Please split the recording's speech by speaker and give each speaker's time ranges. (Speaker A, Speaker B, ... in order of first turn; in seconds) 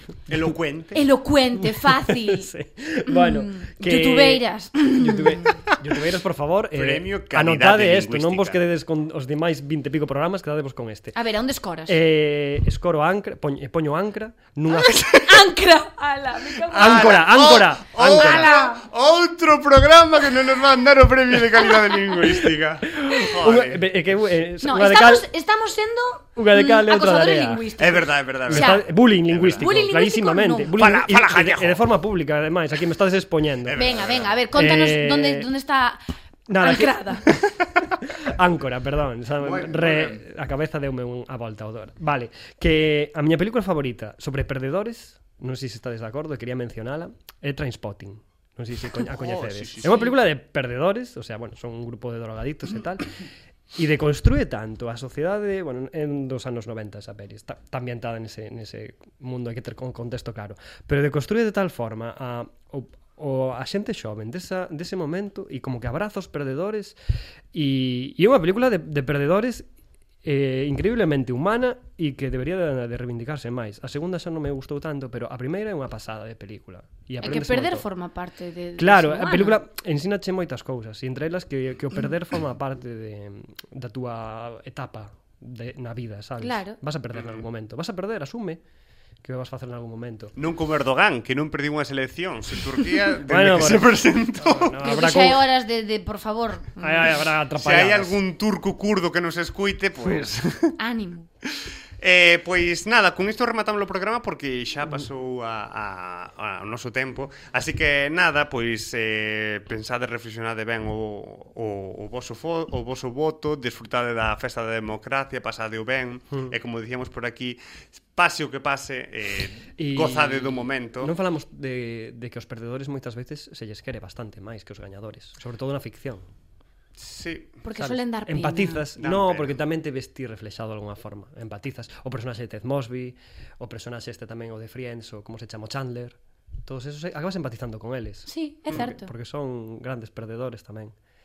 Speaker A: 0.3-1.0, 6.7-8.6, 16.7-23.9, 27.8-29.8, 30.8-31.9, 33.6-34.4, 39.4-40.2, 49.0-50.1, 87.2-87.4, 90.3-94.8, 97.5-100.8, 101.4-121.1, 127.0-127.6, 129.0-129.6
Speaker B: 0.9-2.5, 3.1-5.6, 11.1-12.0, 14.7-17.3, 18.0-18.8, 21.7-22.0, 24.6-28.8, 29.6-30.7, 33.8-36.0, 36.6-37.3, 77.2-79.6, 86.4-86.8, 94.8-97.1, 100.8-101.3, 127.6-128.9, 138.3-139.1
Speaker C: 1.8-11.1, 11.9-15.3, 16.7-18.5, 22.9-25.2, 26.4-27.6, 28.5-34.0, 34.5-35.5, 36.5-53.1, 53.7-66.9, 67.5-69.7, 70.2-77.8, 78.8-88.6, 89.2-90.3, 93.2-95.4, 96.8-98.2, 119.8-126.2, 127.8-140.9